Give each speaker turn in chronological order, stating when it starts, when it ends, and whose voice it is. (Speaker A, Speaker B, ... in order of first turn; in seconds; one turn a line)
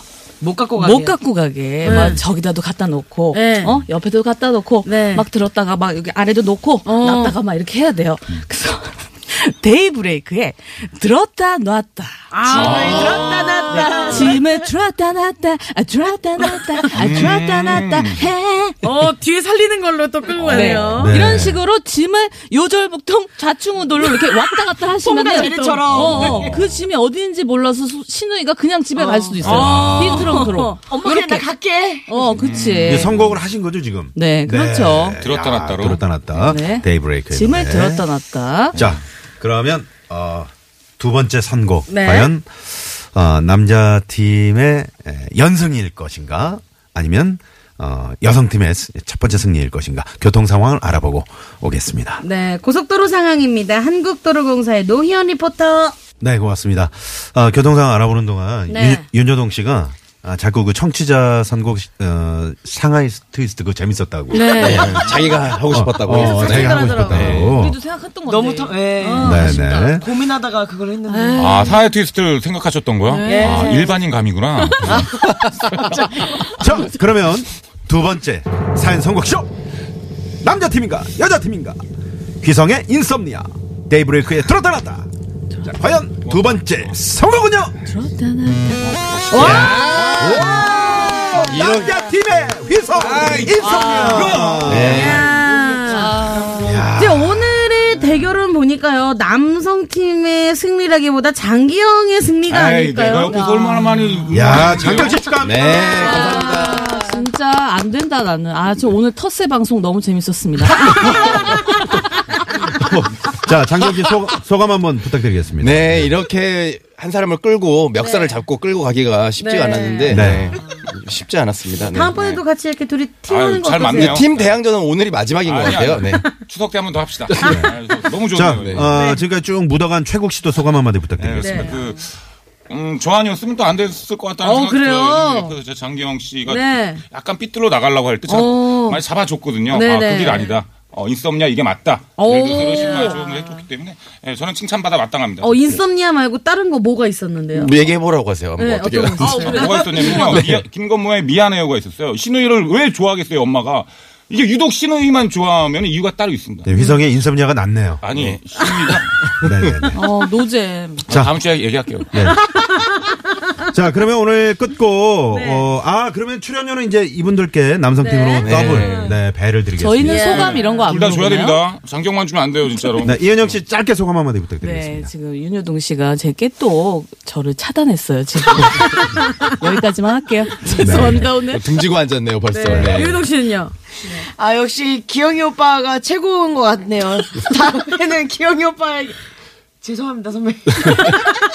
Speaker A: 0.4-1.1
Speaker B: 0.7-18.8
Speaker C: 1.8-2.2
Speaker C: 3.3-3.8
Speaker C: 4.8-5.2
Speaker C: 6.8-7.3
Speaker C: 12.3-14.5
Speaker D: 12.5-13.6
Speaker D: 16.9-18.2
Speaker C: 18.8-21.3
Speaker B: 20.5-31.5
Speaker E: 21.0-21.6
Speaker A: 25.0-26.4
Speaker C: 25.2-26.4
Speaker E: 26.1-26.7
Speaker C: 28.9-31.1
Speaker E: 29.4-30.5
Speaker A: 30.9-32.1
Speaker B: 32.1-33.1
Speaker D: 32.3-33.4
Speaker E: 32.9-38.1
Speaker B: 34.1-35.2
Speaker D: 35.2-36.0
Speaker B: 36.3-38.8
Speaker D: 38.7-39.0
Speaker E: 38.7-52.2
Speaker C: 41.9-42.3
Speaker C: 52.2-56.0
Speaker E: 56.2-64.8
Speaker C: 58.7-59.0
Speaker C: 64.3-65.2
Speaker F: 64.5-67.6
Speaker E: 65.7-67.8
Speaker C: 66.5-67.3
Speaker B: 67.3-69.7
Speaker A: 68.3-71.4
Speaker C: 69.0-69.4
Speaker E: 69.2-70.2
Speaker B: 71.1-71.8
Speaker D: 71.3-76.4
Speaker B: 73.1-73.9
Speaker A: 73.3-73.6
Speaker B: 74.6-75.0
Speaker F: 75.0-76.0
Speaker E: 76.3-79.5
Speaker E: 80.4-81.8
Speaker E: 82.4-85.1
Speaker E: 85.7-87.8
Speaker D: 86.2-87.0
Speaker B: 87.8-89.7
Speaker D: 88.8-90.3
Speaker C: 89.3-91.4
Speaker F: 89.3-90.2
Speaker E: 89.3-95.3
Speaker F: 91.4-92.1
Speaker D: 93.0-96.6
Speaker C: 93.3-96.1
Speaker B: 93.7-94.4
Speaker F: 94.6-95.3
Speaker B: 95.8-96.8
Speaker E: 96.6-97.7
Speaker C: 96.9-103.4
Speaker D: 102.5-105.5
Speaker B: 103.1-104.8
Speaker E: 104.3-106.3
Speaker F: 105.4-106.9
Speaker B: 105.8-111.3
Speaker C: 106.1-107.0
Speaker E: 112.8-116.1
Speaker F: 115.6-122.4
Speaker C: 118.0-118.3
Speaker C: 119.4-120.3
Speaker E: 120.1-120.5
Speaker C: 121.8-124.2
Speaker D: 123.3-124.5
Speaker F: 123.9-126.2
Speaker D: 125.4-128.9
Speaker F: 127.3-127.7
Speaker E: 127.4-127.8
Speaker E: 128.3-131.8
Speaker F: 128.6-128.9
Speaker C: 128.9-129.2
Speaker D: 131.2-132.1
Speaker C: 131.4-131.8
Speaker D: 132.7-145.8
Speaker C: 134.4-135.6
Speaker C: 136.4-137.0
Speaker C: 138.3-139.0
Speaker C: 139.7-140.6
Speaker C: 142.2-143.6
Speaker C: 145.4-147.7
Speaker F: 147.5-150.6
Speaker C: 148.6-150.3
Speaker D: 149.2-156.7
Speaker E: 156.6-158.1
Speaker D: 158.0-159.1
Speaker F: 158.1-159.8
Speaker E: 159.4-160.0
Speaker B: 159.9-161.0
Speaker E: 161.1-161.3
Speaker D: 161.1-162.3
Speaker E: 162.1-162.5
Speaker E: 163.7-170.5
Speaker C: 165.3-165.7
Speaker C: 168.0-169.1
Speaker F: 168.4-169.1
Speaker B: 169.8-171.6
Speaker C: 170.0-170.8
Speaker D: 170.3-173.6
Speaker E: 173.0-175.1
Speaker B: 174.6-181.7
Speaker E: 180.7-181.3
Speaker F: 180.8-183.3
Speaker C: 182.5-184.1
Speaker E: 182.7-183.0
Speaker A: 184.1-189.2
Speaker A: 189.8-191.3